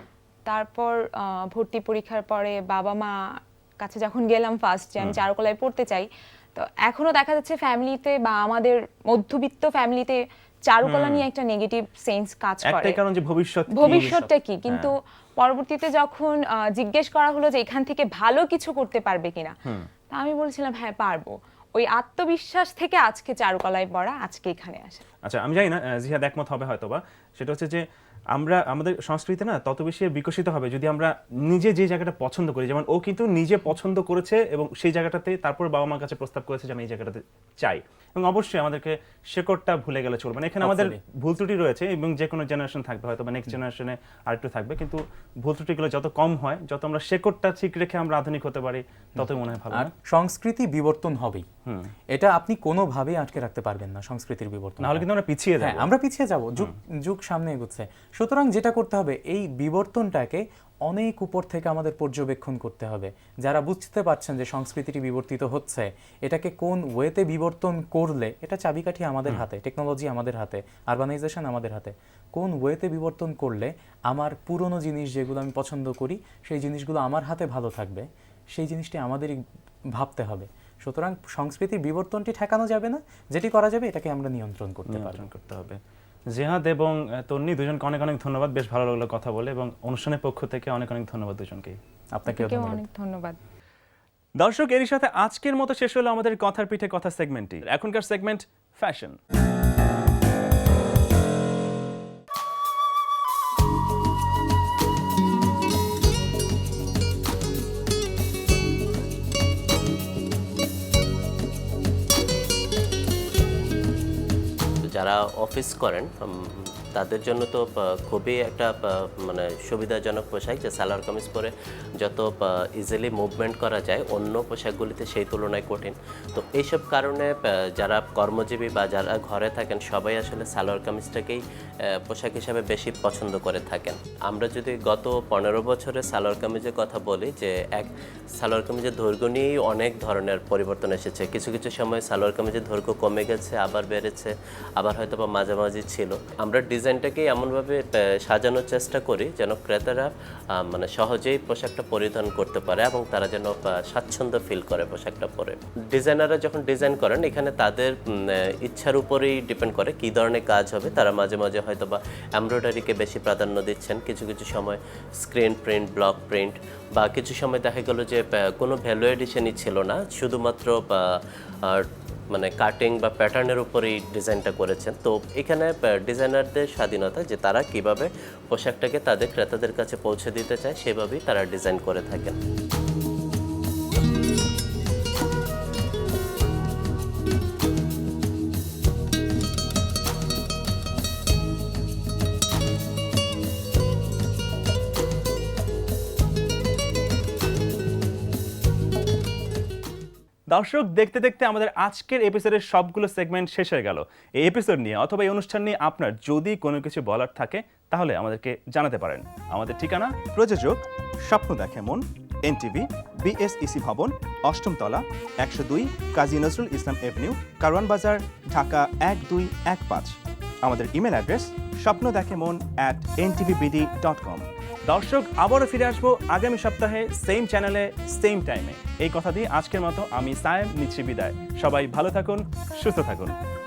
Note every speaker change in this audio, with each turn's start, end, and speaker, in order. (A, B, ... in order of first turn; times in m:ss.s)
0:00.5-0:03.1 A
0:03.8-0:13.0 A
0:10.8-0:11.3 B
0:12.6-0:14.9 B
0:13.7-0:19.5 A
0:14.0-0:14.3 C
0:20.1-0:25.0 A
0:25.2-0:27.8 B
0:28.3-0:49.9 B
0:40.6-0:41.0 C
0:49.2-0:51.5 C
0:52.1-0:55.1 C
0:54.8-0:55.9 B
0:55.6-1:19.4 C
1:20.0-1:25.2 C
1:24.9-1:25.8 B
1:26.4-1:31.8 B
1:32.2-1:32.8 C
1:32.3-1:33.4 A
1:34.4-1:39.2 B
1:54.9-2:11.4 D
2:12.1-2:30.1 D
2:30.6-2:51.0 D
2:51.7-3:02.4 D
3:20.5-3:53.4 B